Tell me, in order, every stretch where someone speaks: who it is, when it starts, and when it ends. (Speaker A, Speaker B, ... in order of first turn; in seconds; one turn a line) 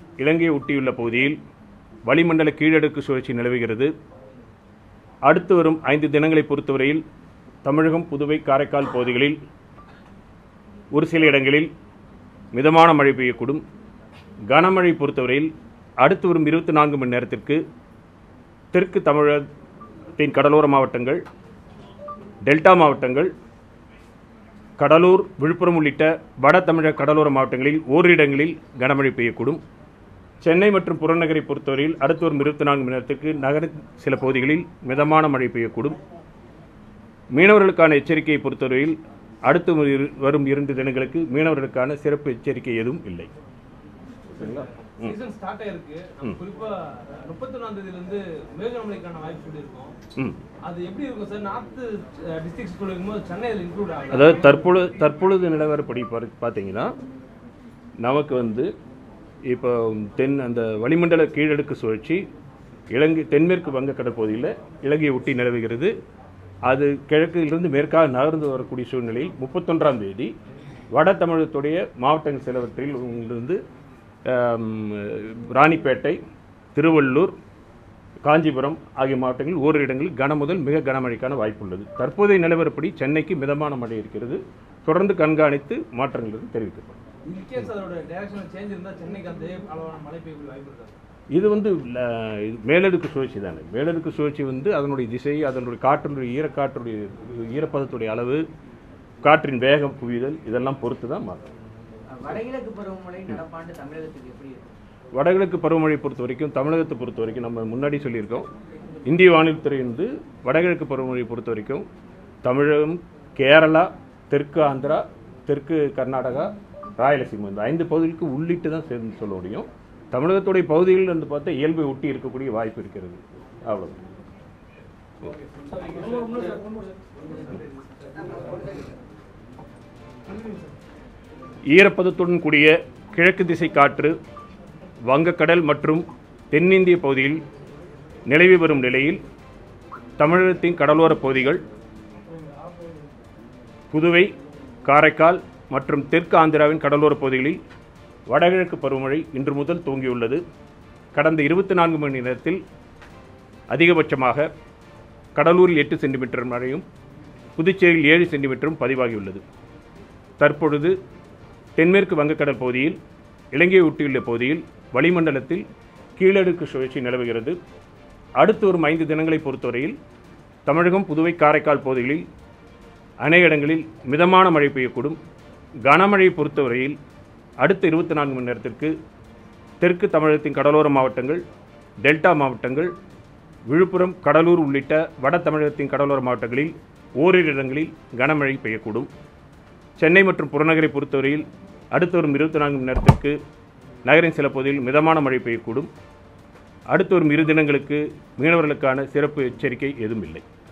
Speaker A: 0.2-1.4
Speaker A: 2.1-3.9
Speaker A: 5.3-7.0
Speaker A: 7.6-9.4
Speaker A: 10.9-11.7
Speaker A: 12.5-13.6
Speaker A: 14.5-17.6
Speaker A: 18.7-19.5
Speaker A: 20.2-21.2
Speaker A: 22.4-23.3
Speaker A: 24.8-29.6
Speaker A: 30.4-36.0
Speaker A: 37.3-43.3
Speaker B: 44.3-50.0
Speaker A: 44.4-45.2
Speaker B: 50.6-54.6
Speaker A: 54.1-56.9
Speaker A: 58.0-58.7
Speaker A: 59.5-62.2
Speaker A: 62.9-65.9
Speaker A: 66.7-70.3
Speaker A: 70.9-73.6
Speaker A: 74.3-76.2
Speaker A: 76.8-77.3
Speaker A: 78.2-87.0
Speaker B: 87.3-91.0
Speaker A: 91.3-98.4
Speaker A: 99.2-101.5
Speaker C: 102.1-104.7
Speaker A: 105.2-108.5
Speaker A: 109.1-111.8
Speaker A: 112.4-124.0
Speaker B: 125.6-127.7
Speaker B: 128.2-128.8
Speaker A: 131.7-134.2
Speaker A: 135.1-137.4
Speaker A: 138.3-139.2
Speaker A: 140.2-141.6
Speaker B: 142.3-143.0
Speaker A: 143.9-144.3
Speaker A: 144.9-147.6
Speaker A: 148.3-150.4
Speaker A: 151.1-152.6
Speaker A: 153.7-154.5
Speaker A: 155.4-156.8
Speaker A: 157.6-159.4
Speaker A: 160.4-160.9
Speaker A: 161.8-163.0
Speaker A: 163.5-165.7
Speaker A: 166.2-167.6
Speaker A: 168.4-170.0
Speaker A: 170.7-172.2
Speaker A: 173.2-175.2
Speaker A: 175.8-177.0
Speaker A: 177.6-178.9
Speaker A: 179.8-181.4
Speaker A: 182.0-182.9
Speaker A: 183.7-189.1
Speaker A: 190.0-193.4
Speaker A: 194.1-195.9
Speaker A: 196.9-200.4